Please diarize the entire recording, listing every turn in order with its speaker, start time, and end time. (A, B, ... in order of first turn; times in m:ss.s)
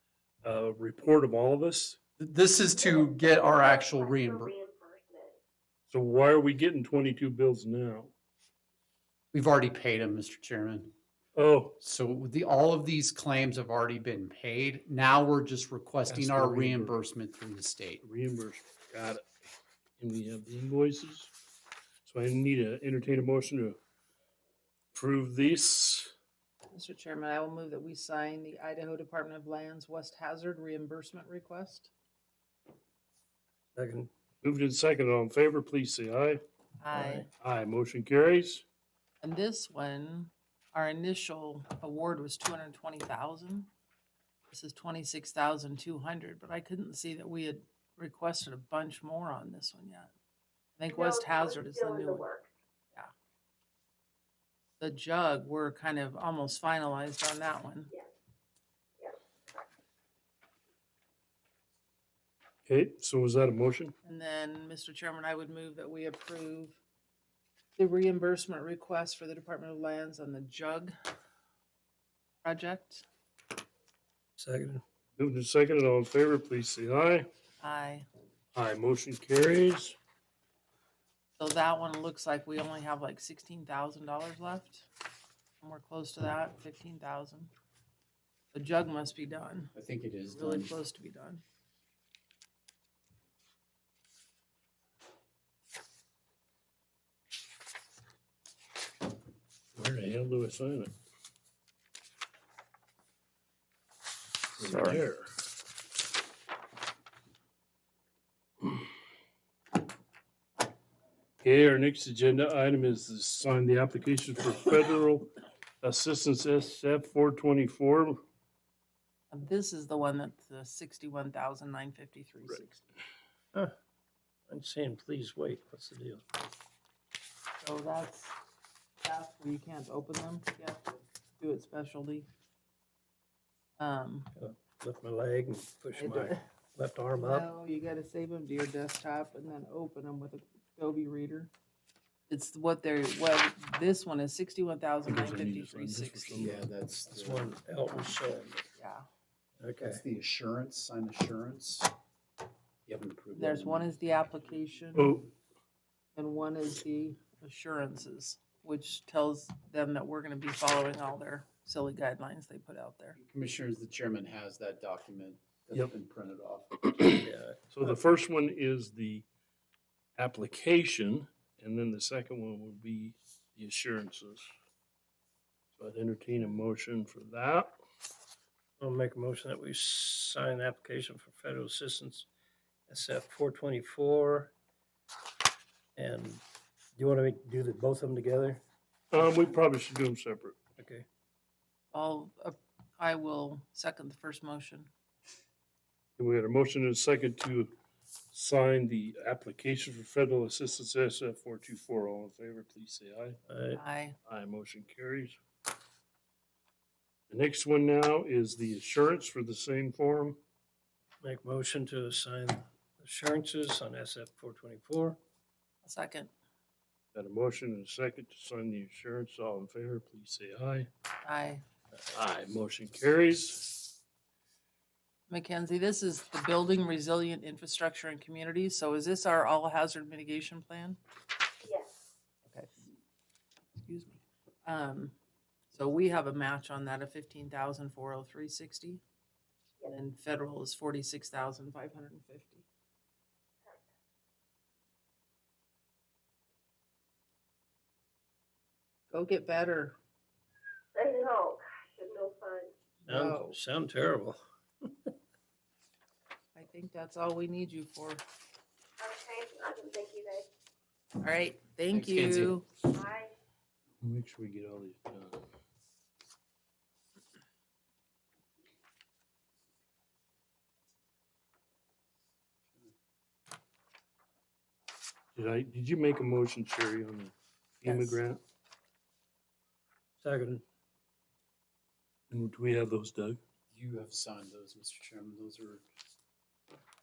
0:00.4-0:02.0 A
0:02.2-0:04.5 B
0:02.6-0:05.4 C
0:05.9-0:08.1 A
0:09.3-0:10.9 B
0:11.3-0:11.8 A
0:11.8-0:18.0 B
0:16.0-0:17.0 A
0:18.0-0:19.2 A
0:20.0-0:21.3 A
0:22.0-0:23.8 A
0:24.9-0:26.1 A
0:26.7-0:31.9 D
0:33.7-0:34.1 E
0:34.4-0:36.4 A
0:36.8-0:37.3 D
0:36.9-0:37.3 E
0:37.4-0:38.6 A
0:39.2-0:43.7 D
0:44.5-0:50.1 D
0:50.8-0:52.3 D
0:50.9-0:52.5 C
0:54.8-0:57.9 D
0:59.0-0:59.6 C
1:02.6-1:03.9 A
1:04.0-1:06.8 D
1:07.8-1:10.9 D
1:12.4-1:13.0 D
1:14.4-1:14.8 E
1:15.2-1:17.3 A
1:17.6-1:18.0 D
1:18.5-1:20.0 A
1:21.4-1:24.9 D
1:25.6-1:27.5 D
1:28.5-1:29.7 D
1:29.7-1:30.7 B
1:30.3-1:31.4 D
1:39.7-1:40.9 A
1:44.6-1:45.3 A
1:44.6-1:45.0 B
1:51.4-1:55.3 A
1:55.8-1:58.2 A
1:59.3-2:02.8 D
2:04.5-2:06.2 E
2:07.6-2:08.3 D
2:09.0-2:12.3 D
2:13.8-2:14.3 D
2:14.4-2:17.5 E
2:15.9-2:16.4 D
2:17.1-2:21.5 D
2:22.3-2:26.6 D
2:25.0-2:26.6 A
2:26.4-2:27.6 B
2:27.0-2:28.6 E
2:28.8-2:29.0 D
2:29.6-2:30.0 E
2:29.8-2:31.9 B
2:32.8-2:33.9 B
2:33.3-2:35.2 D
2:35.0-2:35.2 A
2:36.1-2:43.2 D
2:43.2-2:46.7 B
2:46.8-2:49.2 A
2:47.1-2:47.6 E
2:50.2-2:54.5 A
2:55.8-2:57.7 A
2:58.8-3:02.3 E
3:02.9-3:04.5 E
3:06.0-3:06.4 E
3:07.0-3:08.6 E
3:09.1-3:10.6 A
3:10.8-3:11.0 E
3:11.9-3:14.9 D
3:16.2-3:17.7 A
3:18.3-3:23.4 A
3:23.5-3:23.8 E
3:23.7-3:24.2 D
3:24.3-3:25.4 A
3:27.3-3:30.4 A
3:31.2-3:35.2 E
3:35.8-3:36.3 D
3:37.1-3:40.9 A
3:41.2-3:41.6 D
3:42.1-3:43.9 A
3:45.3-3:51.0 D
3:51.6-3:52.0 C
3:52.5-3:52.9 D
3:53.8-3:55.1 D
3:55.7-3:59.0 D
3:59.8-4:02.6 D
4:09.1-4:10.0 D
4:10.9-4:12.7 C
4:13.0-4:13.6 D
4:13.1-4:14.8 E
4:16.5-4:18.2 D
4:19.0-4:20.5 C
4:21.2-4:22.7 D
4:21.9-4:22.6 B
4:22.8-4:23.3 C
4:24.0-4:25.4 A
4:35.3-4:38.4 A
4:40.2-4:40.6 E
4:42.3-4:43.4 A
4:43.7-4:45.8 B